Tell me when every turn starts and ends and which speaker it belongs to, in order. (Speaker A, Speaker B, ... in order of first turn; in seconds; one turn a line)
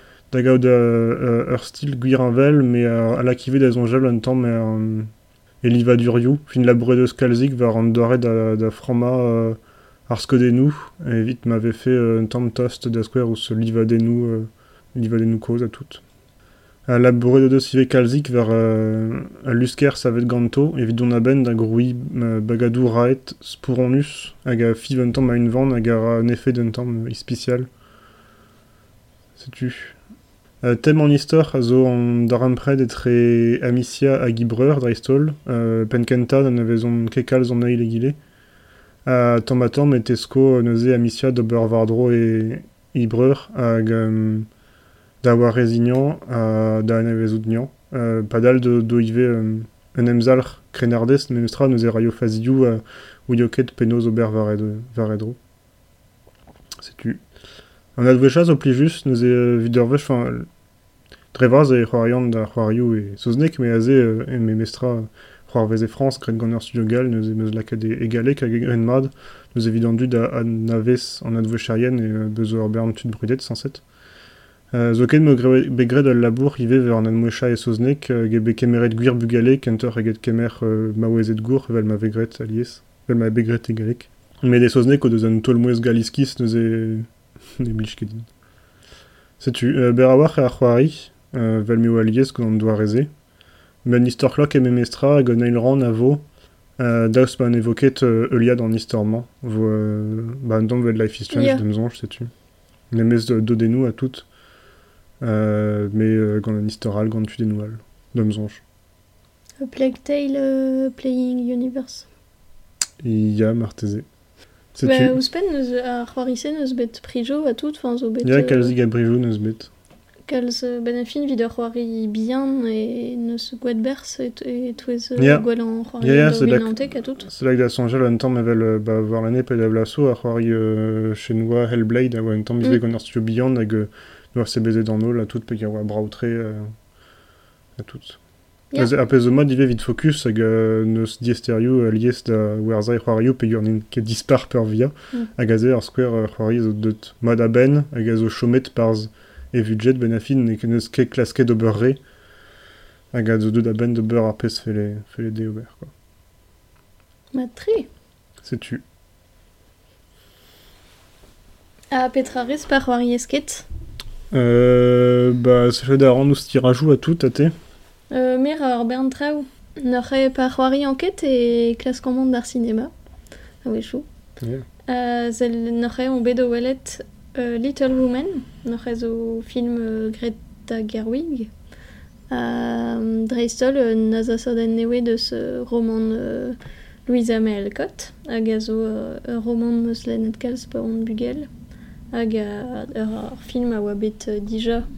Speaker A: 0.3-5.1
Speaker A: 5.6-16.0
Speaker A: 16.9-27.7
Speaker A: 29.4-30.0
Speaker A: 30.6-38.2
Speaker A: 39.0-44.5
Speaker A: 45.2-55.4
Speaker A: 56.8-57.2
Speaker A: 58.0-60.5
Speaker A: 61.3-73.8
Speaker A: 74.7-88.3
Speaker A: 89.4-93.1
Speaker A: 93.8-96.2
Speaker A: 96.8-102.3
Speaker B: 101.3-101.6
Speaker A: 102.9-104.3
Speaker A: 105.2-108.6
Speaker B: 109.6-112.1
Speaker A: 113.0-114.0
Speaker A: 114.8-115.2
Speaker B: 114.8-118.7
Speaker A: 118.2-119.7
Speaker B: 120.3-127.3
Speaker A: 125.2-125.5
Speaker A: 126.0-136.7
Speaker A: 137.8-138.2
Speaker A: 138.8-152.0
Speaker A: 153.1-155.9
Speaker B: 157.3-157.9
Speaker A: 158.4-158.8
Speaker B: 161.9-163.7
Speaker A: 164.3-167.5
Speaker B: 168.1-172.9
Speaker B: 173.6-174.1
Speaker A: 174.4-174.7
Speaker B: 174.9-181.5
Speaker B: 182.3-191.5
Speaker B: 192.1-194.8